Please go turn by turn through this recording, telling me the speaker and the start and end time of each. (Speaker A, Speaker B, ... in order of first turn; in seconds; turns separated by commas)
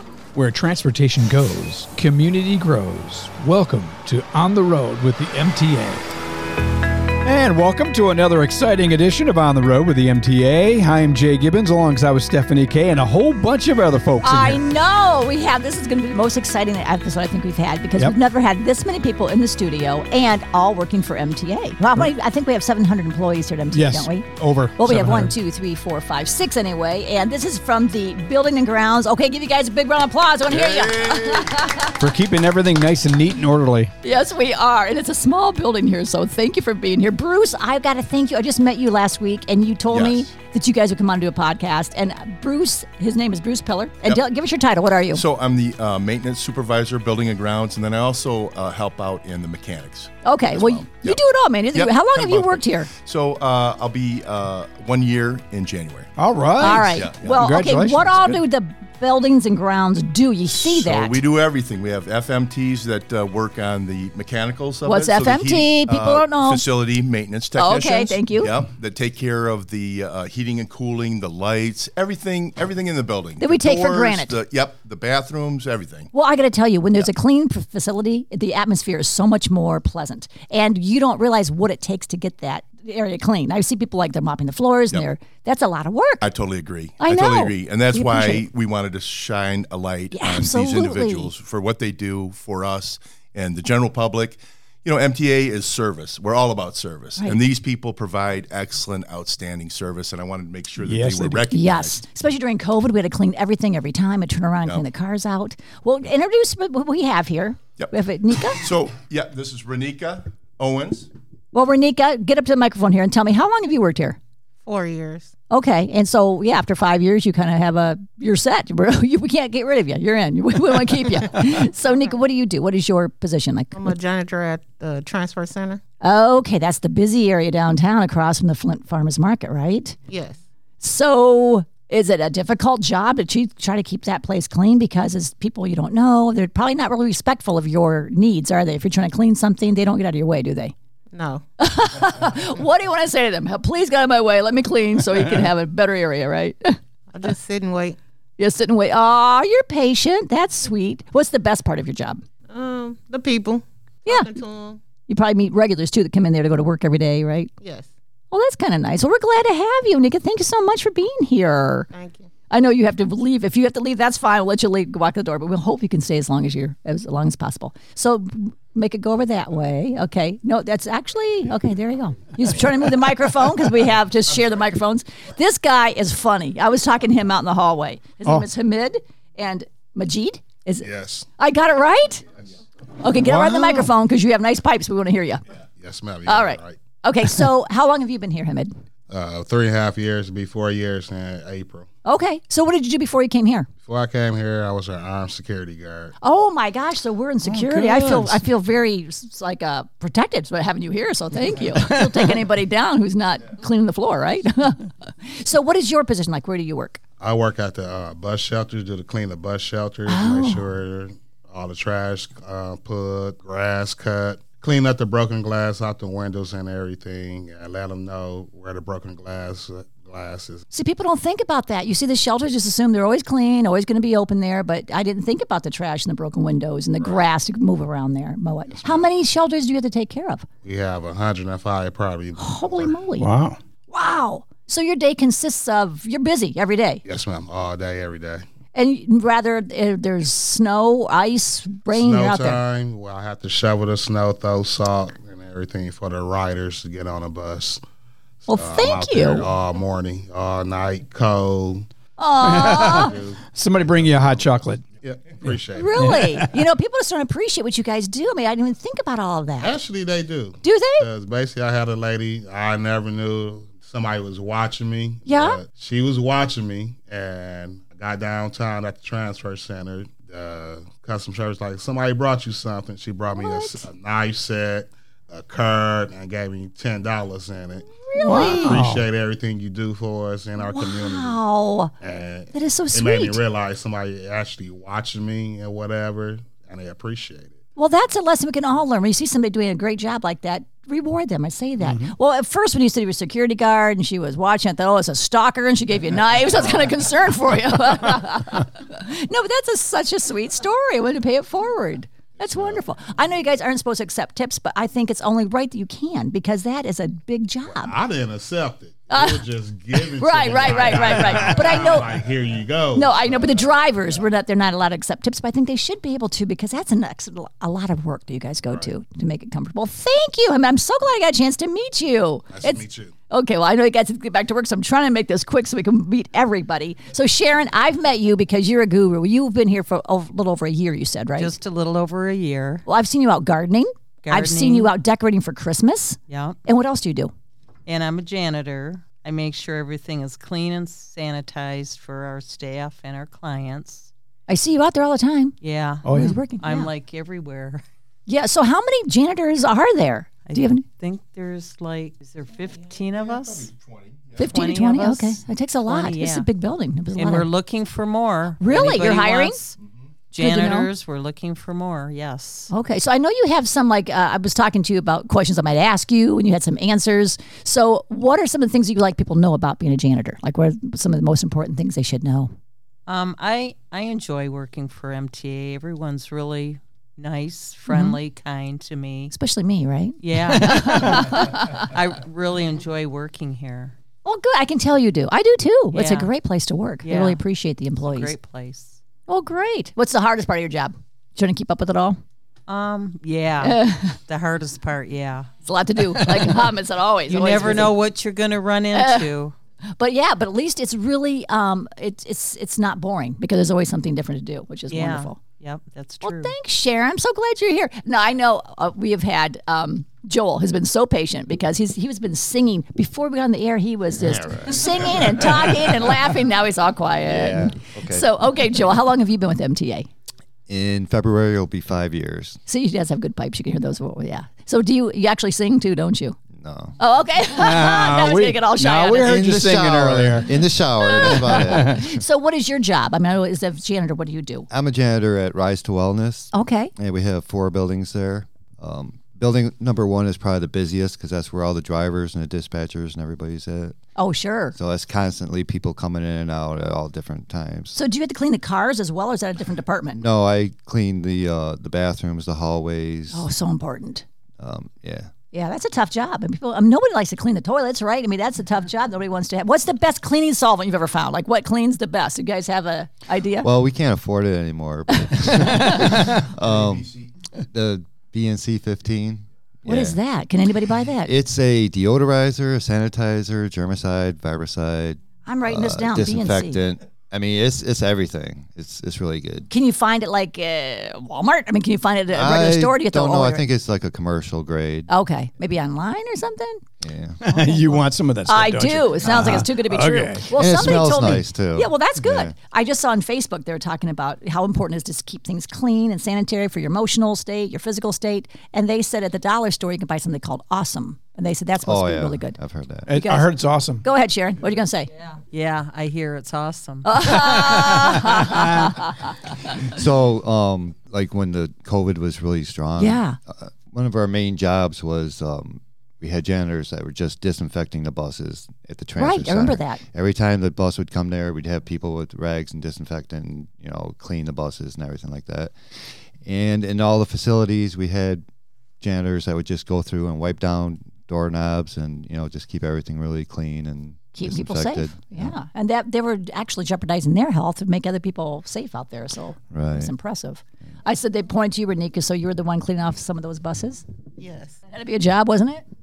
Speaker A: 0.3-6.2, Speaker A: 7.2-14.6, Speaker B: 14.2-32.0, Speaker A: 23.7-25.3, Speaker C: 30.5-31.6, Speaker A: 32.0-33.9, Speaker B: 34.0-45.2, Speaker C: 39.9-40.3, Speaker C: 45.1-51.2, Speaker B: 50.2-52.9, Speaker C: 51.7-56.1, Speaker A: 56.2-58.2, Speaker B: 56.6-61.2, Speaker C: 56.9-57.4, Speaker C: 60.5-76.1, Speaker B: 64.8-66.7, Speaker B: 67.6-68.5, Speaker B: 73.4-74.4, Speaker B: 76.1-86.2, Speaker C: 86.2-102.0, Speaker B: 87.0-88.5, Speaker B: 90.1-91.3, Speaker A: 100.8-101.5, Speaker B: 101.5-108.7, Speaker C: 107.8-111.1, Speaker B: 111.5-114.2, Speaker D: 114.7-115.3, Speaker B: 115.5-124.0, Speaker D: 123.7-125.8, Speaker B: 126.0-130.0, Speaker D: 130.1-130.4, Speaker B: 130.8-140.7, Speaker D: 141.1-141.4, Speaker B: 141.6-147.3, Speaker D: 147.1-148.0, Speaker B: 148.4-152.2, Speaker D: 152.5-154.8, Speaker B: 154.1-154.3, Speaker B: 155.1-157.5, Speaker D: 157.6-157.9, Speaker B: 158.3-161.9, Speaker D: 161.9-162.3, Speaker B: 162.5-180.9, Speaker E: 180.8-181.3, Speaker B: 181.4-182.2, Speaker B: 183.0-185.4, Speaker A: 183.2-183.9, Speaker E: 185.8-186.8, Speaker B: 186.3-188.7, Speaker E: 189.1-191.9, Speaker B: 192.1-193.7, Speaker E: 193.8-196.1, Speaker B: 196.2-207.0, Speaker A: 197.4-198.4, Speaker E: 207.2-220.6, Speaker B: 210.1-210.6, Speaker B: 220.7-230.5, Speaker E: 228.7-229.1, Speaker E: 230.6-233.0, Speaker B: 232.4-233.3, Speaker A: 233.2-233.6, Speaker B: 233.9-237.0, Speaker E: 237.0-238.4, Speaker B: 238.7-242.6, Speaker E: 241.9-247.8, Speaker E: 248.4-251.9, Speaker B: 248.5-249.5, Speaker B: 252.2-253.2, Speaker E: 252.4-256.1, Speaker A: 252.4-254.8, Speaker B: 255.8-259.8, Speaker A: 256.0-256.4, Speaker E: 259.6-281.4, Speaker B: 260.6-261.1, Speaker B: 265.3-265.6, Speaker B: 273.4-273.9, Speaker B: 278.1-278.8, Speaker A: 278.2-279.0, Speaker B: 280.6-281.9, Speaker E: 282.0-287.6, Speaker B: 282.5-283.4, Speaker B: 287.8-307.9, Speaker A: 291.8-292.1, Speaker E: 307.7-313.5, Speaker B: 309.1-309.4, Speaker B: 310.0-312.1, Speaker B: 312.9-331.6, Speaker E: 322.5-323.1, Speaker F: 331.4-332.9, Speaker B: 332.9-337.3, Speaker F: 334.2-334.9, Speaker F: 336.3-336.6, Speaker F: 337.9-344.1, Speaker B: 344.5-345.6, Speaker F: 345.6-346.1, Speaker A: 346.0-346.4, Speaker B: 346.1-346.9, Speaker F: 346.6-347.8, Speaker B: 348.3-350.9, Speaker F: 350.5-353.7, Speaker C: 352.8-354.4, Speaker B: 354.4-357.5, Speaker F: 354.4-356.5, Speaker F: 357.2-359.7, Speaker B: 358.6-359.6, Speaker C: 359.8-360.1, Speaker F: 360.3-362.7, Speaker B: 360.4-360.9, Speaker B: 362.7-372.5, Speaker F: 373.1-379.3, Speaker B: 377.9-378.2, Speaker B: 379.3-381.9, Speaker F: 380.2-383.9, Speaker A: 380.8-381.3, Speaker B: 384.2-388.3, Speaker F: 385.9-386.3, Speaker F: 387.0-387.4, Speaker F: 388.0-389.0, Speaker B: 389.3-392.2, Speaker F: 392.7-395.5, Speaker B: 393.6-394.2, Speaker B: 395.6-397.9, Speaker F: 397.3-399.6, Speaker B: 398.9-399.3, Speaker B: 400.0-405.4, Speaker F: 404.9-406.5, Speaker B: 406.2-420.1, Speaker G: 414.2-415.3, Speaker G: 417.3-418.3, Speaker G: 420.7-422.6, Speaker B: 422.7-426.4, Speaker G: 426.6-427.0, Speaker B: 427.0-429.4, Speaker A: 427.6-430.6, Speaker G: 429.2-432.2, Speaker B: 431.0-434.7, Speaker G: 434.7-444.0, Speaker B: 436.5-436.9, Speaker B: 444.2-444.8, Speaker G: 444.7-448.0, Speaker B: 447.9-450.2, Speaker G: 450.2-453.5, Speaker B: 453.3-454.2, Speaker G: 454.6-455.3, Speaker B: 455.5-463.7, Speaker G: 463.6-470.2, Speaker B: 465.2-466.2, Speaker C: 466.6-467.2, Speaker B: 469.9-471.3, Speaker G: 471.1-479.7, Speaker B: 475.4-476.8, Speaker B: 479.7-483.6, Speaker G: 482.3-485.1, Speaker B: 485.1-486.8, Speaker G: 487.0-487.9, Speaker A: 487.4-490.5, Speaker B: 487.6-487.8, Speaker B: 488.5-502.6, Speaker G: 490.5-492.5, Speaker G: 501.8-503.1, Speaker A: 503.1-504.0, Speaker B: 503.1-503.5, Speaker B: 504.0-505.1, Speaker F: 505.2-507.1, Speaker B: 507.0-509.1, Speaker G: 509.8-528.5, Speaker B: 513.0-513.4, Speaker B: 519.2-520.0, Speaker G: 529.0-535.6, Speaker B: 534.4-544.0, Speaker G: 539.7-540.1, Speaker D: 544.4-544.8, Speaker B: 544.9-545.8